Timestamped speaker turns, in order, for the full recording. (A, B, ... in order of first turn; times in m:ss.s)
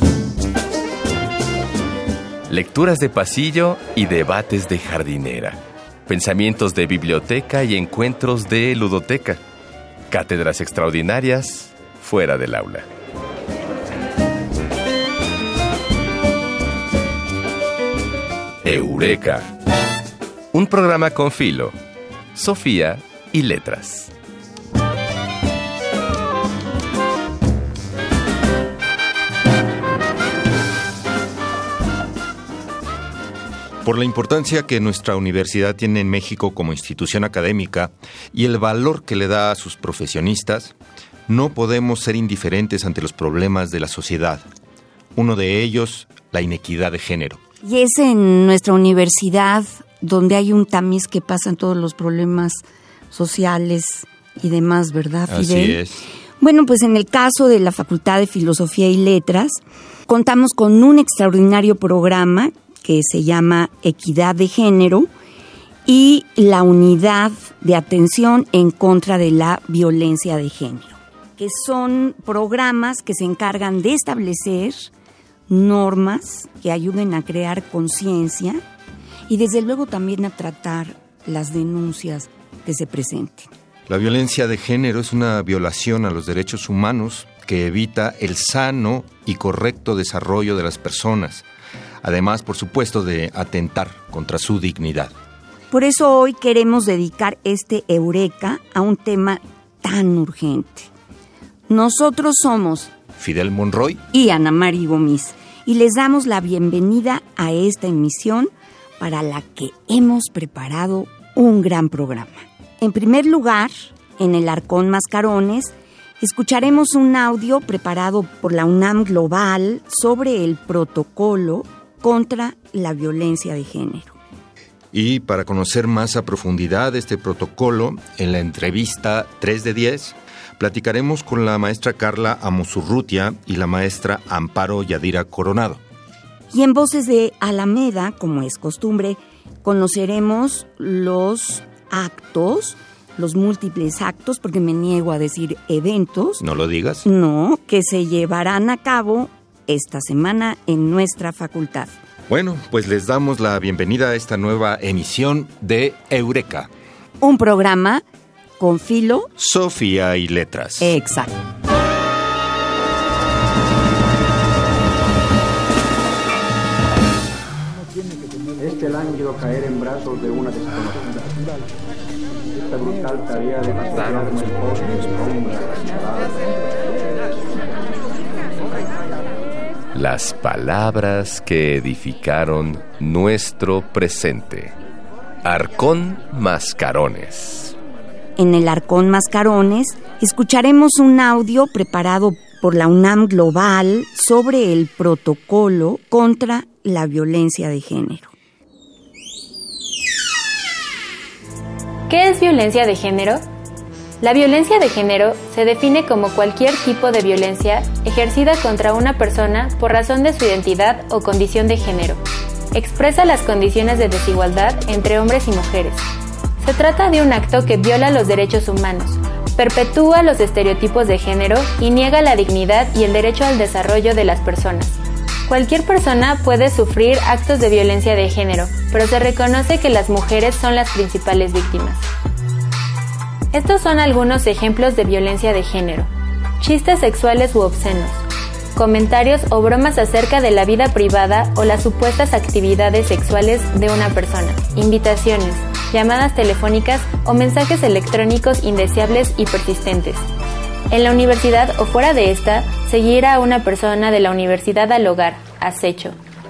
0:02.5-0:09.4 A
0:10.1-0:12.9 A
0:18.6-0:19.5 A
0:20.5-0:21.8 A
0:22.3-0:24.1 A
0:33.8-0:40.7 B
0:41.3-0:44.4 B
0:45.2-0:47.4 B
0:47.6-0:55.8 C
0:55.3-0:56.0 B
0:56.4-1:05.1 C
1:05.8-1:14.9 C
1:15.5-1:18.6 C
1:19.3-1:23.5 C
1:23.9-1:31.4 B
1:32.0-1:35.1 B
1:35.7-1:40.9 C
1:41.7-1:42.9 C
1:43.2-1:44.0 B
1:44.1-2:04.2 C
2:04.9-2:15.8 B
2:16.5-2:26.4 C
2:26.4-2:27.0 B
2:27.0-2:32.0 C
2:32.3-2:36.7 B
2:37.2-2:38.0 C
2:38.6-2:39.3 C
2:39.4-2:40.9 B
2:40.8-2:41.4 C
2:48.6-2:51.6 D
2:52.5-2:56.4 D
2:59.9-3:04.7 A
3:05.4-3:07.7 A
3:08.4-3:18.3 C
3:22.1-3:23.4 E
3:24.2-3:32.2 E
3:32.7-3:36.0 E
3:36.6-3:44.9 E
3:45.5-3:52.0 E
3:53.5-3:56.1 E
3:56.6-3:58.2 E
3:58.8-4:10.2 E
4:10.9-4:16.2 E